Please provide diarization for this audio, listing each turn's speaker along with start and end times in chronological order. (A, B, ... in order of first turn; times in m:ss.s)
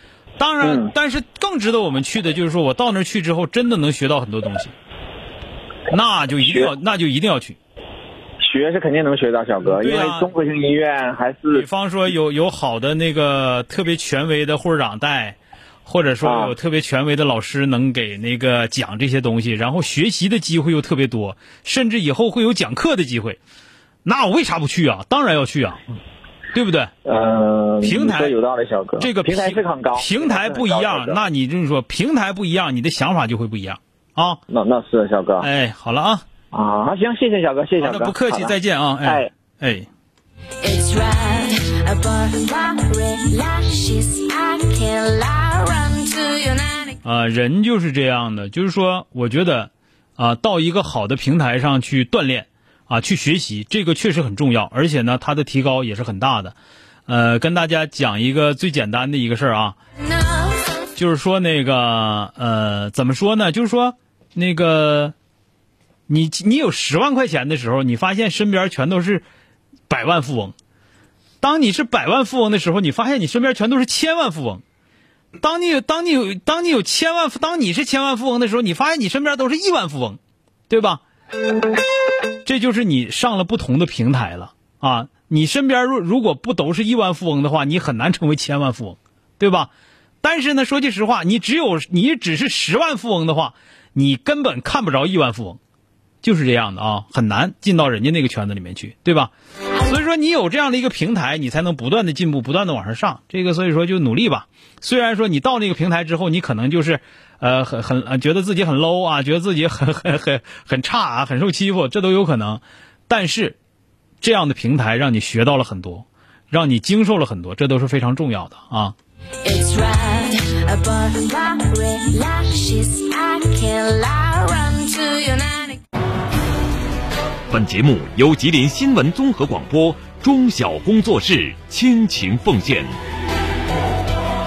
0:00.4-0:04.7 A
0:00.6-0:00.9 B
0:05.9-0:07.6 A
0:08.4-0:11.7 B
0:09.6-0:10.3 A
0:11.5-0:23.4 A
0:16.2-0:16.6 B
0:24.0-0:25.8 A
0:26.5-0:26.9 A
0:27.0-0:31.2 B
0:27.8-0:28.4 A
0:29.0-0:34.4 A
0:34.5-0:35.5 B
0:35.4-0:36.2 A
0:36.5-0:39.3 B
0:37.8-0:39.9 A
0:40.6-0:46.9 C
0:47.0-0:56.6 A
0:57.1-0:59.8 A
1:01.0-1:05.1 A
1:06.1-1:09.2 A
1:09.9-1:10.6 A
1:11.4-1:14.6 A
1:15.4-1:21.0 A
1:22.4-1:29.7 A
1:30.2-1:35.6 A
1:36.2-1:39.3 A
1:39.8-1:53.6 A
1:54.2-1:59.0 A
1:59.4-2:05.8 C
2:07.5-2:13.0 D